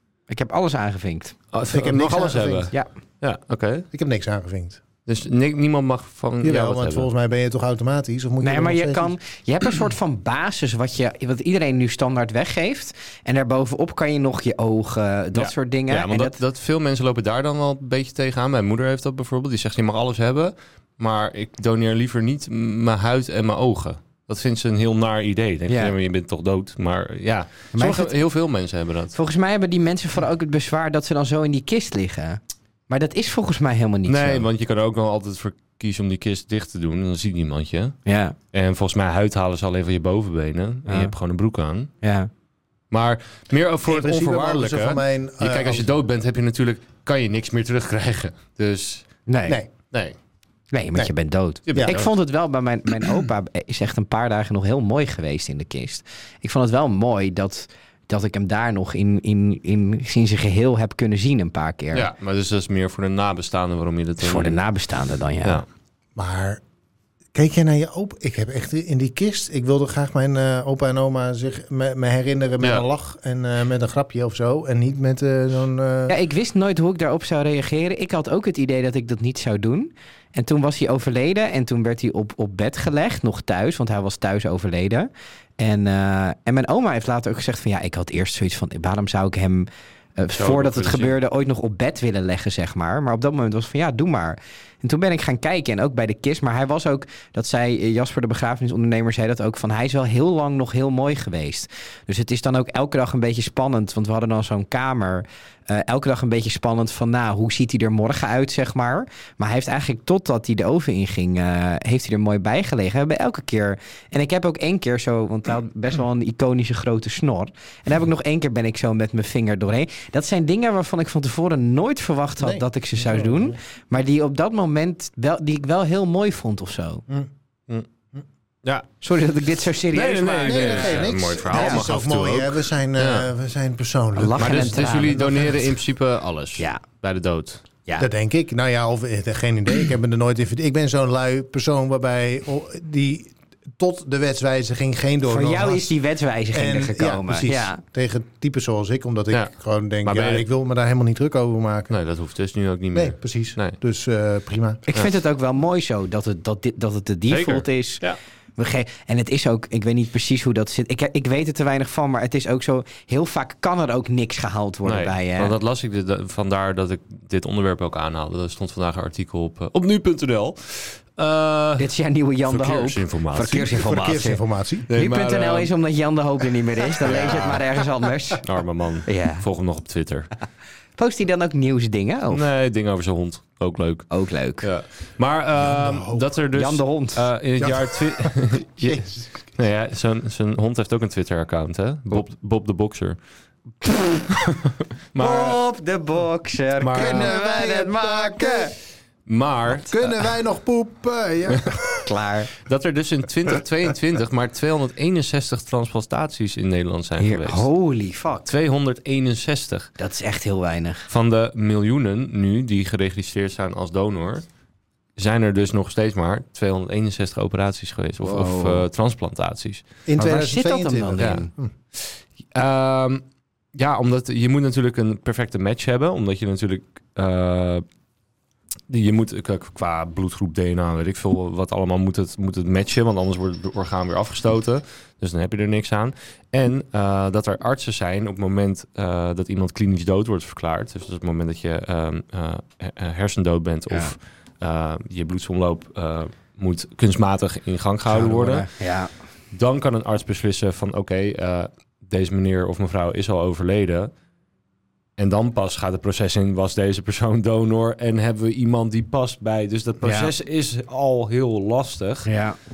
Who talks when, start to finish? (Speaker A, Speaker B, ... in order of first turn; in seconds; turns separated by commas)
Speaker A: 0.3-1.4, Speaker B: 1.5-3.9, Speaker C: 1.7-2.7, Speaker C: 3.9-4.8, Speaker B: 5.1-7.1, Speaker C: 6.4-9.1, Speaker A: 8.4-16.4, Speaker B: 15.3-29.1, Speaker A: 25.7-25.9, Speaker A: 27.8-28.1, Speaker A: 29.1-34.5, Speaker B: 34.1-38.0, Speaker A: 38.1-38.4, Speaker B: 38.5-41.9, Speaker A: 40.9-41.1, Speaker A: 42.0-42.3, Speaker B: 42.9-49.1, Speaker C: 43.9-45.9, Speaker A: 49.3-49.6, Speaker A: 50.7-62.1, Speaker B: 51.7-52.1, Speaker B: 61.9-64.6, Speaker A: 64.2-65.6, Speaker C: 66.2-66.6, Speaker C: 67.3-76.2, Speaker A: 76.1-127.0, Speaker B: 90.4-91.2, Speaker C: 122.4-123.5, Speaker A: 129.0-131.8, Speaker B: 129.9-133.3, Speaker C: 130.4-135.6, Speaker A: 134.2-135.2, Speaker B: 134.4-137.6, Speaker C: 138.0-145.9, Speaker A: 145.3-147.8, Speaker C: 146.5-151.9, Speaker B: 150.0-150.4, Speaker B: 151.9-153.8, Speaker C: 152.9-154.8, Speaker A: 154.9-158.0, Speaker B: 157.3-158.2, Speaker A: 158.6-165.5, Speaker B: 164.8-171.9, Speaker A: 171.8-174.4, Speaker B: 172.5-173.7, Speaker C: 173.5-174.9, Speaker B: 174.9-175.7, Speaker A: 174.9-178.4, Speaker B: 177.0-177.6, Speaker B: 178.4-180.3, Speaker A: 179.1-179.4, Speaker A: 181.0-182.5, Speaker B: 182.3-184.1, Speaker A: 184.1-184.7, Speaker B: 184.6-193.2, Speaker C: 185.6-186.3, Speaker A: 186.6-187.3, Speaker C: 187.6-189.3, Speaker A: 193.8-194.3, Speaker B: 194.4-195.6, Speaker A: 195.2-198.7, Speaker B: 196.8-197.3, Speaker C: 196.9-198.7, Speaker B: 199.3-200.1, Speaker C: 199.8-202.1, Speaker A: 202.0-202.5, Speaker B: 202.6-207.7, Speaker A: 207.2-208.5, Speaker B: 208.5-209.9, Speaker A: 210.0-211.1, Speaker B: 211.1-214.5, Speaker B: 215.2-219.8, Speaker A: 218.2-218.8, Speaker C: 220.1-221.7, Speaker A: 220.2-221.5, Speaker B: 221.2-221.4, Speaker B: 222.0-227.8, Speaker B: 228.9-248.7, Speaker A: 248.1-249.1, Speaker B: 249.5-254.1, Speaker B: 255.2-262.3, Speaker A: 260.0-260.3, Speaker A: 262.3-262.6